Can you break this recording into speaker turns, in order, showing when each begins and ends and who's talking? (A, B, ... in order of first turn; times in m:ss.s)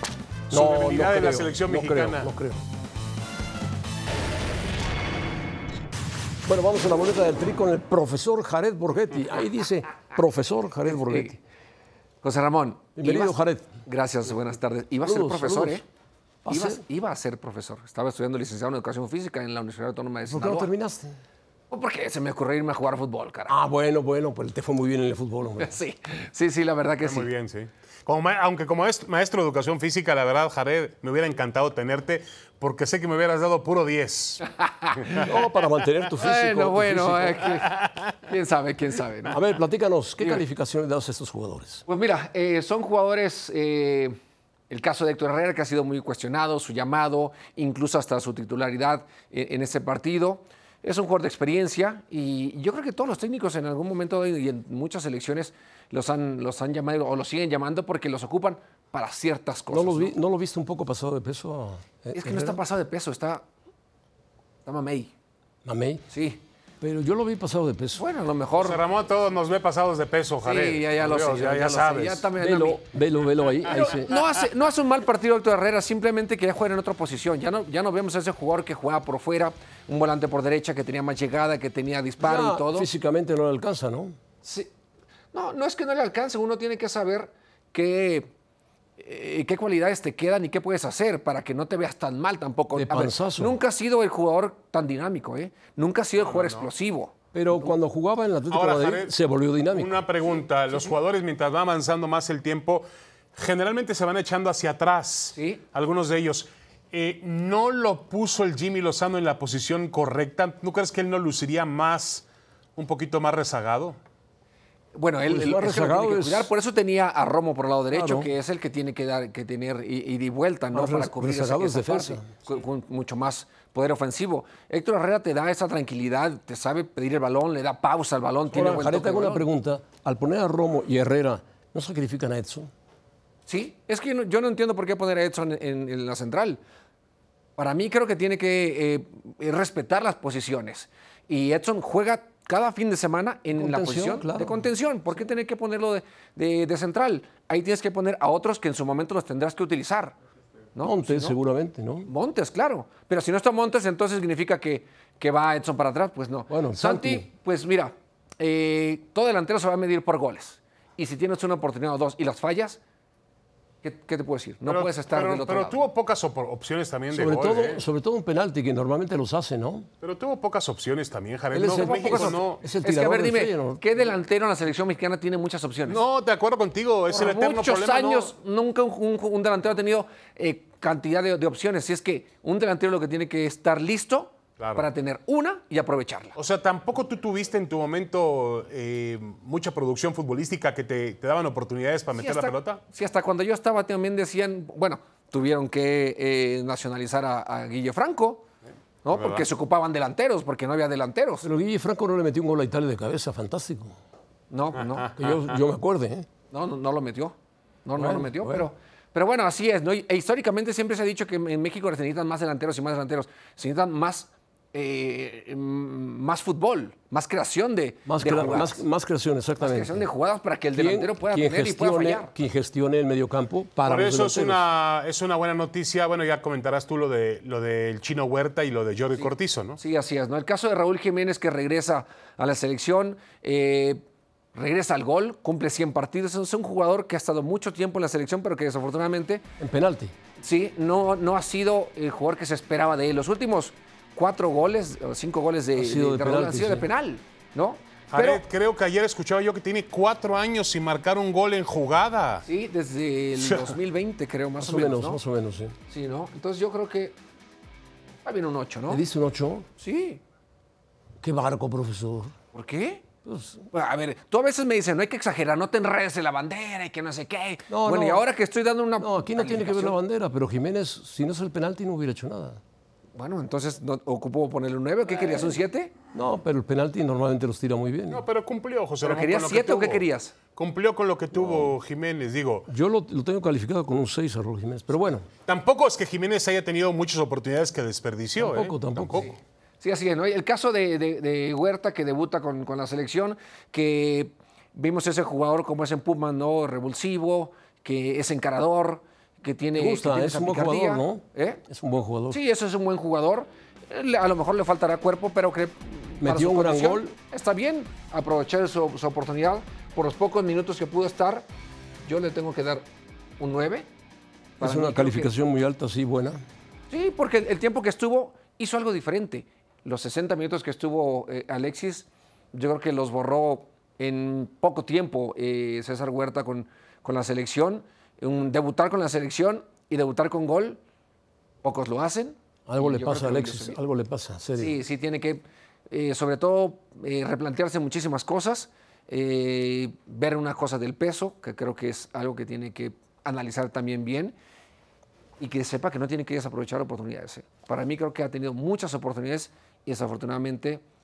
0:00.5-0:02.3 A
0:00.5-0:02.6 B
0:06.4-0:11.4 B
0:10.9-0:11.4 C
0:12.2-0:15.8 C
0:13.0-0:13.7 B
0:15.0-0:15.8 B
0:16.4-0:16.8 B
0:16.5-0:20.7 C
0:20.3-0:21.2 B
0:21.7-0:23.5 C
0:23.5-0:25.8 B
0:25.6-0:27.3 C
0:27.0-0:34.4 A
0:34.5-0:35.3 C
0:35.2-0:37.5 B
0:36.2-0:39.4 C
0:37.7-0:38.0 A
0:39.3-0:41.8 B
0:41.9-0:44.2 C
0:44.7-1:00.1 C
0:59.7-1:02.6 B
1:02.1-1:03.4 C
1:04.6-1:05.1 C
1:05.6-1:06.0 B
1:06.1-1:06.4 C
1:06.8-1:08.0 B
1:08.0-1:08.8 C
1:08.6-1:12.3 A
1:10.4-1:12.8 C
1:12.4-1:14.1 B
1:13.6-1:22.9 C
1:22.2-1:24.2 B
1:24.4-1:24.7 C
1:25.3-1:28.3 C
1:29.0-1:37.1 C
1:32.8-1:33.6 B
1:36.2-1:36.7 A
1:37.3-1:40.0 B
1:38.5-1:39.2 A
1:39.7-1:52.2 A
1:45.4-1:45.6 C
1:52.8-1:54.0 A
1:55.0-2:09.5 C
1:55.3-1:56.5 B
1:57.9-1:58.3 B
2:00.7-2:02.3 B
2:08.5-2:12.7 B
2:13.5-2:16.6 C
2:17.6-2:30.2 C
2:23.6-2:24.7 B
2:30.8-2:31.4 C
2:30.8-2:32.1 B
2:32.1-2:42.8 C
2:36.5-2:37.3 B
2:43.8-2:45.8 C
2:44.6-2:47.8 A
2:47.1-2:49.9 B
2:50.0-2:52.6 A
2:51.5-2:53.8 B
2:51.7-2:56.0 C
2:55.9-2:58.3 A
2:57.1-3:06.4 C
3:04.6-3:04.9 A
3:06.4-3:12.8 A
3:12.2-3:18.5 C
3:19.0-3:21.5 C
3:19.1-3:19.5 A
3:21.4-3:24.0 B
3:24.5-3:25.1 C
3:24.8-3:25.6 A
3:25.2-3:26.3 B
3:26.5-3:38.8 C
3:28.0-3:28.6 B
3:38.1-3:40.1 B
3:39.6-3:42.3 C
3:40.7-3:44.6 B
3:43.8-3:49.8 A
3:49.2-3:59.4 C
3:59.6-4:00.2 B
4:00.4-4:08.4 C
4:05.8-4:06.9 B
4:08.1-4:12.5 A
4:12.5-4:15.2 C
4:13.4-4:13.8 A
4:14.6-4:15.8 B
4:15.9-4:17.2 C
4:18.2-4:19.0 C
4:18.9-4:19.7 B
4:19.8-4:20.2 C
4:21.2-4:22.3 B
4:22.5-4:23.0 C
4:23.2-4:23.7 B
4:23.7-4:30.0 C
4:27.7-4:28.2 B
4:29.0-4:32.6 B
4:33.2-4:35.9 C
4:36.1-4:38.2 B
4:38.1-4:42.7 A
4:39.0-4:40.3 C
4:41.4-4:41.7 B
4:42.7-4:45.3 B
4:45.5-4:49.3 A
4:48.4-4:49.3 B
4:49.2-5:01.6 C
4:59.8-5:02.4 B
5:02.3-5:11.5 C
5:06.2-5:07.2 B
5:12.0-5:12.9 C
5:13.4-5:13.9 C
5:14.6-5:15.3 C
5:14.6-5:16.4 B
5:16.9-5:30.8 C
5:31.6-5:33.8 C
5:32.7-5:34.8 B
5:34.6-5:44.4 C
5:45.4-5:50.8 C